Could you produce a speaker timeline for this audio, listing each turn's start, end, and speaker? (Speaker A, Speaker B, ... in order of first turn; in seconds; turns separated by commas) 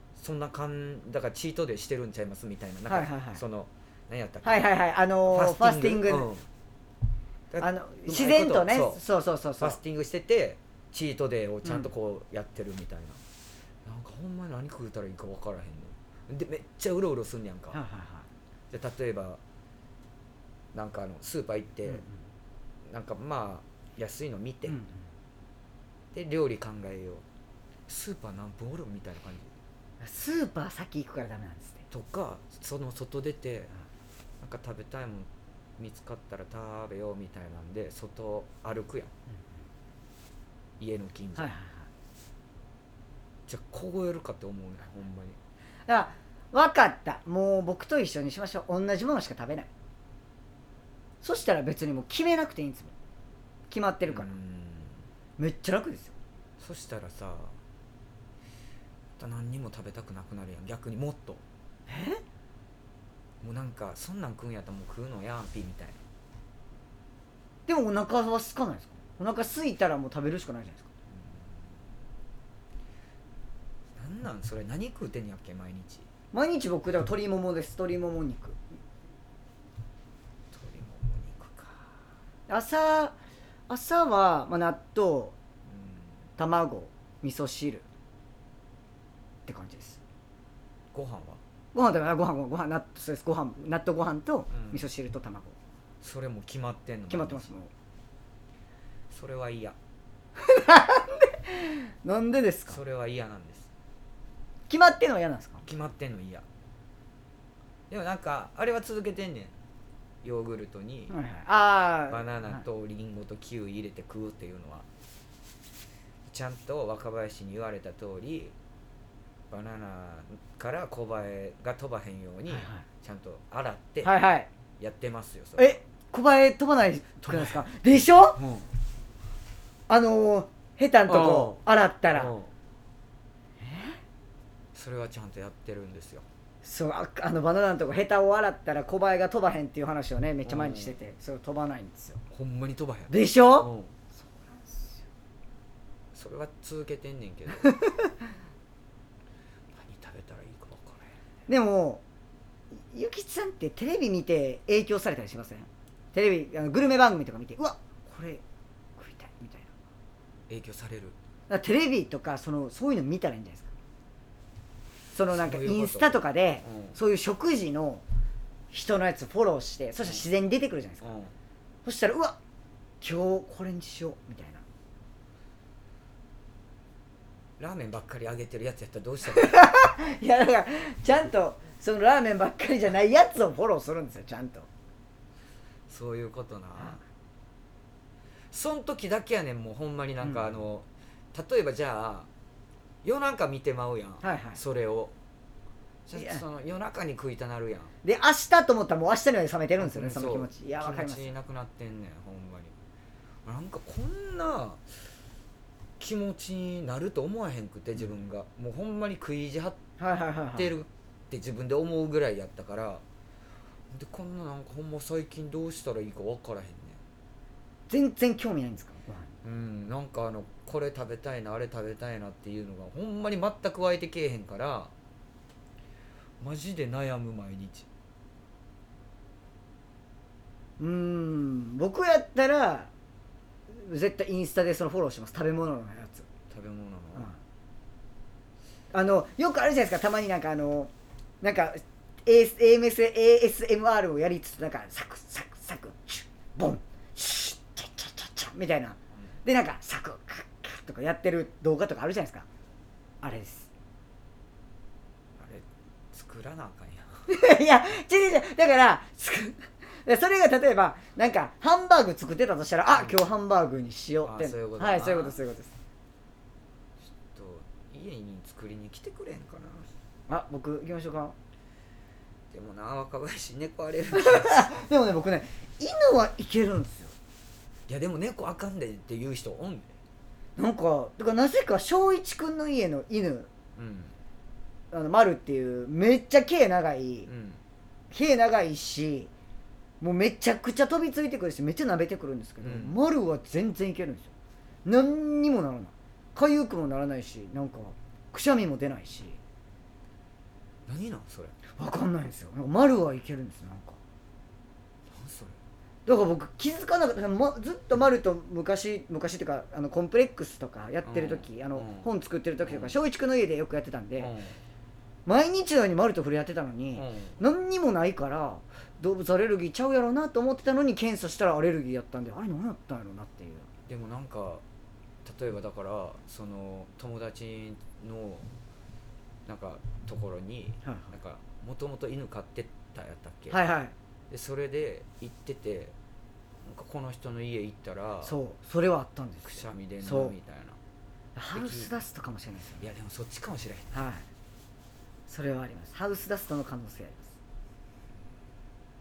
Speaker A: 0.2-4.7, Speaker B: 2.9-3.4, Speaker B: 4.4-6.3, Speaker A: 5.3-6.5, Speaker A: 7.5-9.0, Speaker B: 7.6-9.8, Speaker A: 9.6-13.2, Speaker A: 13.8-17.8, Speaker B: 17.7-18.3, Speaker A: 18.7-19.4, Speaker A: 20.7-22.0, Speaker B: 21.9-22.1, Speaker A: 22.9-24.8, Speaker B: 24.6-25.1, Speaker A: 26.1-27.2, Speaker A: 27.9-29.5, Speaker B: 30.0-31.8, Speaker A: 31.9-33.7, Speaker A: 34.4-39.1, Speaker A: 40.8-41.5, Speaker B: 41.4-41.9, Speaker A: 43.5-45.4, Speaker B: 45.9-49.7, Speaker B: 51.2-52.9, Speaker B: 53.7-54.3, Speaker A: 54.1-55.0, Speaker B: 55.4-56.1, Speaker A: 56.6-57.6, Speaker A: 59.2-61.4, Speaker B: 61.9-62.2, Speaker A: 63.4-66.0, Speaker B: 67.7-70.8, Speaker A: 71.1-71.7, Speaker A: 74.0-76.1, Speaker B: 76.3-78.6, Speaker A: 80.5-81.9, Speaker B: 82.5-83.2, Speaker B: 83.7-85.3, Speaker A: 85.7-86.2, Speaker B: 86.4-87.8, Speaker B: 89.5-90.0, Speaker A: 90.9-91.4, Speaker B: 91.7-95.5, Speaker A: 94.5-94.8, Speaker A: 96.0-97.5, Speaker B: 97.1-97.7, Speaker A: 99.1-99.8, Speaker B: 100.4-102.8, Speaker A: 102.7-103.7, Speaker B: 104.7-105.6, Speaker A: 105.6-106.5, Speaker A: 107.9-109.5, Speaker A: 110.2-111.1, Speaker B: 111.1-112.6, Speaker A: 112.1-114.8, Speaker A: 116.3-118.5, Speaker A: 119.5-124.1, Speaker B: 122.5-122.8, Speaker B: 124.0-124.5, Speaker A: 124.8-125.8, Speaker B: 125.6-128.4, Speaker A: 127.2-127.7, Speaker A: 128.3-128.7, Speaker B: 129.9-132.3, Speaker A: 131.1-132.5, Speaker B: 133.6-134.0, Speaker A: 134.7-136.2, Speaker B: 136.6-142.2, Speaker A: 140.4-140.9, Speaker A: 142.3-143.9, Speaker B: 143.1-145.0, Speaker A: 146.1-147.7, Speaker A: 149.7-151.2, Speaker B: 151.5-152.0, Speaker B: 152.7-158.4, Speaker B: 159.0-159.7, Speaker A: 160.5-161.2, Speaker B: 161.5-163.7, Speaker B: 165.1-168.0, Speaker A: 165.3-167.0, Speaker B: 168.7-171.2, Speaker A: 171.0-171.3, Speaker B: 171.8-172.4, Speaker B: 173.0-174.6, Speaker A: 177.6-179.6, Speaker B: 179.2-184.7, Speaker A: 185.9-187.0, Speaker A: 188.5-192.3, Speaker B: 190.2-190.5, Speaker A: 193.0-195.1, Speaker B: 194.2-194.6, Speaker A: 196.1-197.9, Speaker B: 196.2-196.4, Speaker B: 198.0-201.3, Speaker A: 199.8-202.7, Speaker A: 203.4-204.8, Speaker A: 206.0-209.8, Speaker B: 210.0-210.7, Speaker A: 210.5-213.0, Speaker A: 213.9-217.0, Speaker B: 217.9-219.3, Speaker A: 219.4-224.9, Speaker A: 226.4-227.8, Speaker B: 230.8-232.9, Speaker B: 233.7-236.3, Speaker A: 236.5-237.3, Speaker B: 238.9-240.9, Speaker B: 241.4-252.4, Speaker B: 253.2-253.7, Speaker A: 255.3-257.2, Speaker B: 257.3-265.7, Speaker A: 262.9-263.2, Speaker A: 264.2-265.4, Speaker A: 267.0-269.9, Speaker B: 270.3-271.3, Speaker A: 272.5-274.6, Speaker B: 274.1-277.1, Speaker A: 277.9-279.9, Speaker B: 280.6-283.5, Speaker A: 283.8-284.1, Speaker B: 284.9-287.3, Speaker A: 287.2-287.6, Speaker B: 288.1-289.3, Speaker B: 290.0-294.3, Speaker A: 292.6-292.9, Speaker B: 294.8-299.4, Speaker A: 300.9-301.6, Speaker B: 301.8-304.0, Speaker A: 305.1-305.6, Speaker B: 306.1-314.3, Speaker A: 311.0-312.1, Speaker A: 312.6-313.0, Speaker A: 314.2-314.6, Speaker B: 315.2-323.7, Speaker A: 316.9-317.4, Speaker A: 323.9-324.6, Speaker A: 325.2-328.5, Speaker A: 329.4-333.6, Speaker B: 330.8-331.1, Speaker B: 333.5-333.9, Speaker A: 334.3-335.9, Speaker A: 336.6-338.4, Speaker B: 338.2-340.3, Speaker A: 339.4-340.8, Speaker B: 341.4-342.9, Speaker A: 341.5-341.9, Speaker A: 342.8-344.0, Speaker B: 343.9-344.2, Speaker B: 345.3-347.3